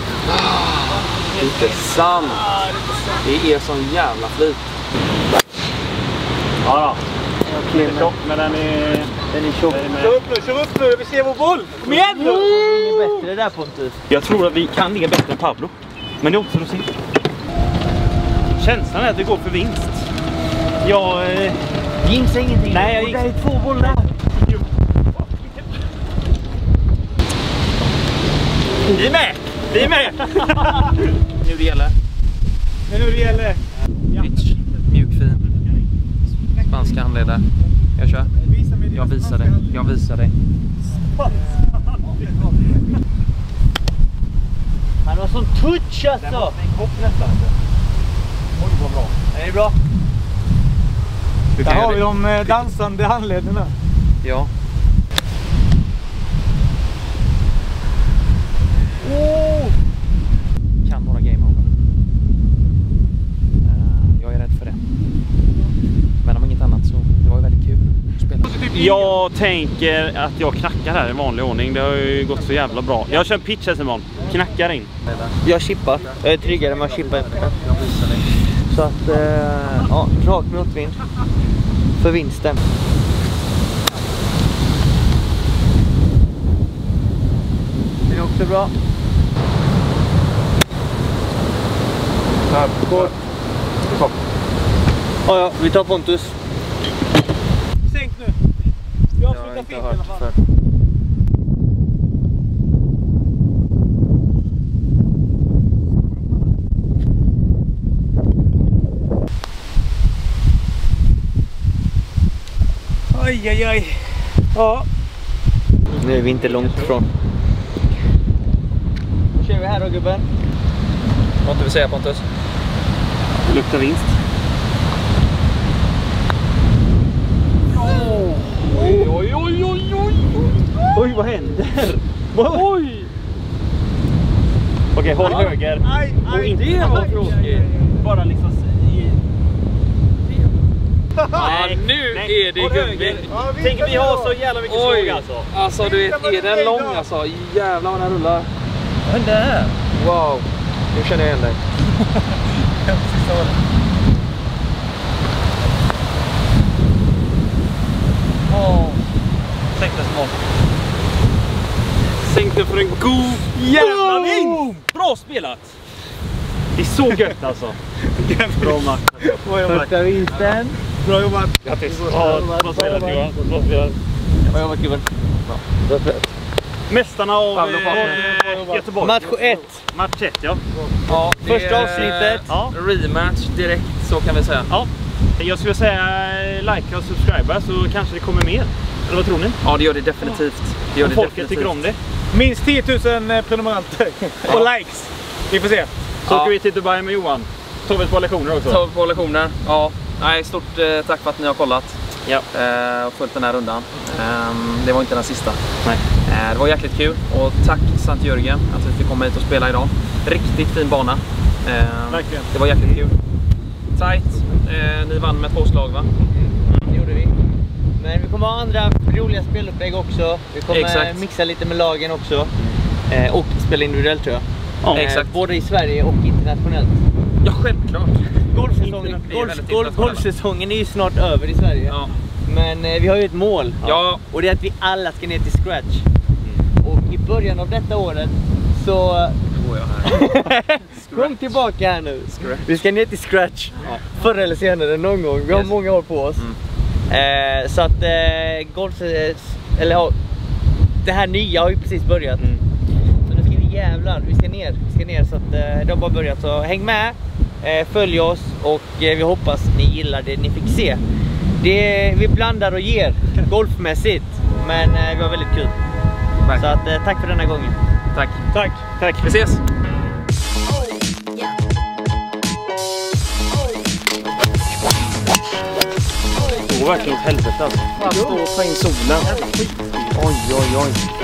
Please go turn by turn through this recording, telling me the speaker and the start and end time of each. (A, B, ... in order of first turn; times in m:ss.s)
0:00.3-0:02.5 A
0:01.3-0:01.8 B
0:02.2-0:03.2 C
0:03.2-0:04.6 A
0:06.6-0:07.0 D
0:07.4-0:08.2 B
0:07.7-0:09.1 D
0:09.3-0:09.9 B
0:09.7-0:10.2 D
0:09.9-0:12.6 C
0:11.8-0:14.0 B
0:12.2-0:13.3 D
0:14.1-0:16.9 D
0:18.5-0:20.1 D
0:20.8-0:21.7 D
0:22.0-0:24.1 B
0:22.7-0:24.6 D
0:28.8-0:31.0 D
0:31.4-0:32.0 A
0:32.9-0:34.3 C
0:34.1-0:35.4 A
0:36.5-0:37.4 A
0:36.6-0:37.1 C
0:38.0-0:38.3 A
0:38.3-0:39.9 C
0:38.9-0:40.3 A
0:41.1-0:42.0 C
0:41.7-0:42.2 D
0:45.0-0:46.6 B
0:46.2-0:47.5 D
0:48.6-0:49.2 D
0:49.3-0:49.8 B
0:51.6-0:53.7 C
0:51.6-0:52.6 A
0:54.2-0:54.5 A
0:59.0-0:59.7 C
1:00.8-1:01.7 A
1:03.6-1:04.8 A
1:06.2-1:08.6 A
1:08.4-1:09.2 C
1:08.7-1:14.9 D
1:15.0-1:15.4 A
1:15.4-1:17.7 B
1:16.0-1:18.3 A
1:16.4-1:17.9 C
1:18.7-1:21.0 B
1:22.0-1:22.6 B
1:28.1-1:28.7 B
1:32.5-1:33.2 A
1:33.8-1:34.2 A
1:35.2-1:36.3 B
1:37.9-1:38.4 C
1:39.2-1:40.3 C
1:39.2-1:40.4 A
1:53.1-1:54.9 C
1:56.0-1:57.1 B
1:56.3-1:56.9 A
1:59.3-2:00.3 B
2:01.4-2:02.2 A
2:03.4-2:04.1 D
2:07.7-2:09.1 D
2:08.6-2:10.6 A
2:10.8-2:12.8 D
2:12.6-2:13.1 A
2:14.9-2:17.4 D
2:15.2-2:18.1 C
2:16.5-2:17.7 A
2:18.0-2:19.2 D
2:21.2-2:21.5 C
2:21.3-2:25.5 D
2:21.3-2:23.3 A
2:23.3-2:24.4 C
2:24.7-2:28.5 A
2:25.8-2:27.1 C
2:29.8-2:31.6 A
2:39.8-2:40.4 D
2:42.2-2:45.7 D
2:43.6-2:44.6 C
2:46.8-2:47.8 D
2:48.1-2:53.2 C
2:48.5-2:49.9 D
2:49.7-2:50.8 B
2:51.6-2:52.3 A
2:52.1-2:54.0 D
2:52.1-2:53.3 B
2:54.5-2:56.3 B
2:56.9-3:00.6 D
2:57.5-2:58.2 A
2:57.8-2:58.9 C
2:59.0-2:59.8 B
3:01.1-3:02.5 B
3:01.1-3:04.7 A
3:01.8-3:02.7 D
3:04.7-3:09.6 D
3:09.6-3:11.8 A
3:11.0-3:12.0 D
3:12.3-3:15.9 C
3:16.3-3:16.5 A
3:16.3-3:18.8 D
3:18.6-3:22.0 A
3:22.5-3:25.6 A
3:26.2-3:33.1 A
3:32.1-3:33.0 D
3:34.0-3:36.1 A
3:36.6-3:36.9 A
3:36.9-3:37.4 B
3:38.0-3:42.5 B
3:40.7-3:41.2 A
3:43.1-3:47.0 B
3:44.8-3:45.1 D
3:44.9-3:45.3 A
3:47.4-3:50.3 A
3:48.5-3:56.1 B
3:51.9-3:52.1 A
3:53.8-3:54.2 A
3:56.8-3:59.4 B
3:59.5-4:01.6 A
4:00.0-4:06.5 B
4:02.3-4:02.7 A
4:05.5-4:05.8 A
4:07.1-4:10.2 B
4:11.0-4:12.5 B
4:13.3-4:21.0 B
4:21.6-4:25.8 B
4:26.4-4:26.8 A
4:26.6-4:27.8 B
4:28.1-4:28.5 A
4:28.5-4:28.8 C
4:29.0-4:29.3 D
4:29.2-4:29.6 A
4:36.3-4:37.9 D
4:36.4-4:37.1 B
4:38.0-4:39.3 A
4:38.0-4:38.4 C
4:39.2-4:40.1 C
4:40.1-4:41.0 A